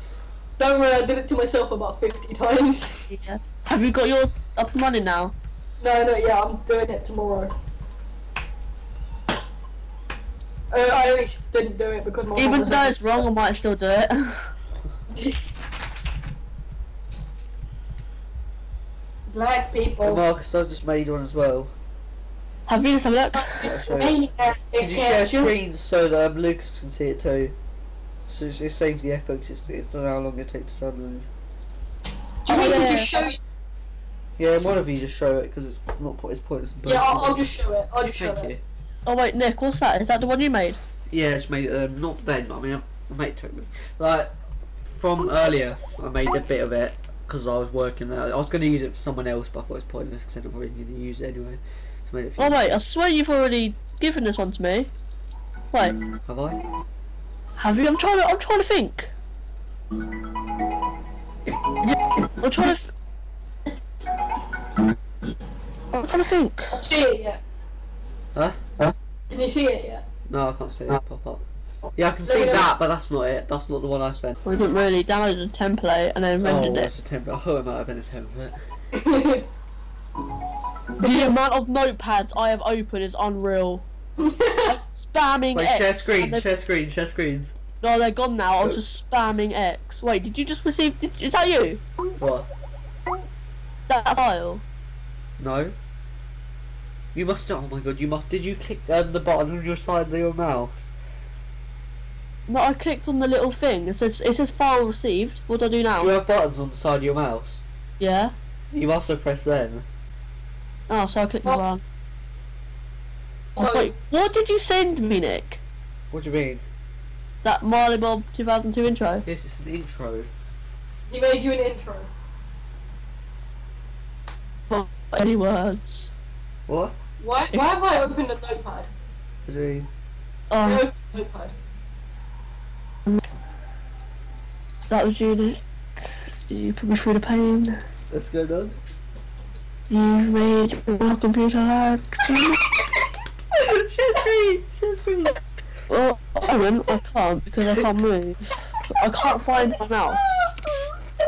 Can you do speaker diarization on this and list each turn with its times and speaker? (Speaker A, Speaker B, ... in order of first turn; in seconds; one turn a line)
Speaker A: 0.6-3.1
Speaker B: 3.1-5.3
Speaker A: 5.8-7.5
Speaker A: 10.7-13.2
Speaker B: 12.3-14.5
Speaker A: 15.1-15.4
Speaker A: 19.3-20.2
Speaker C: 20.0-21.7
Speaker B: 22.7-23.7
Speaker A: 23.3-25.5
Speaker C: 23.6-24.2
Speaker C: 24.8-27.6
Speaker C: 28.3-31.3
Speaker A: 32.4-33.4
Speaker B: 32.5-33.1
Speaker C: 34.4-37.5
Speaker A: 36.8-38.5
Speaker C: 38.0-38.6
Speaker B: 39.0-40.8
Speaker C: 41.1-52.8
Speaker B: 52.4-54.9
Speaker B: 55.7-56.0
Speaker C: 56.2-56.6
Speaker B: 57.6-59.1
Speaker B: 62.4-62.9
Speaker B: 65.9-66.8
Speaker A: 66.7-67.4
Speaker C: 68.3-68.8
Speaker A: 69.3-70.0
Speaker C: 70.3-71.4
Speaker C: 72.0-74.4
Speaker A: 72.2-72.7
Speaker B: 74.5-76.9
Speaker C: 76.4-78.6
Speaker A: 78.9-79.5
Speaker B: 81.0-83.8
Speaker A: 84.2-84.8
Speaker B: 84.7-86.4
Speaker C: 85.5-87.5
Speaker B: 87.8-91.8
Speaker C: 92.2-92.5
Speaker B: 93.9-94.6
Speaker C: 95.4-95.7
Speaker C: 97.1-100.9
Speaker B: 102.5-106.2
Speaker C: 106.0-107.6
Speaker B: 108.0-108.3
Speaker C: 108.7-109.8
Speaker B: 110.9-111.8
Speaker A: 113.6-113.9
Speaker B: 113.6-115.6
Speaker C: 116.1-116.6
Speaker B: 117.4-119.2
Speaker C: 119.2-120.3
Speaker A: 121.1-122.1
Speaker B: 124.7-126.1
Speaker C: 126.7-126.9
Speaker A: 127.2-128.9
Speaker C: 129.4-129.9
Speaker B: 130.5-130.8
Speaker A: 130.6-131.5
Speaker B: 134.9-137.8
Speaker C: 138.1-138.8
Speaker B: 139.9-142.6
Speaker C: 143.5-145.5
Speaker B: 145.9-150.2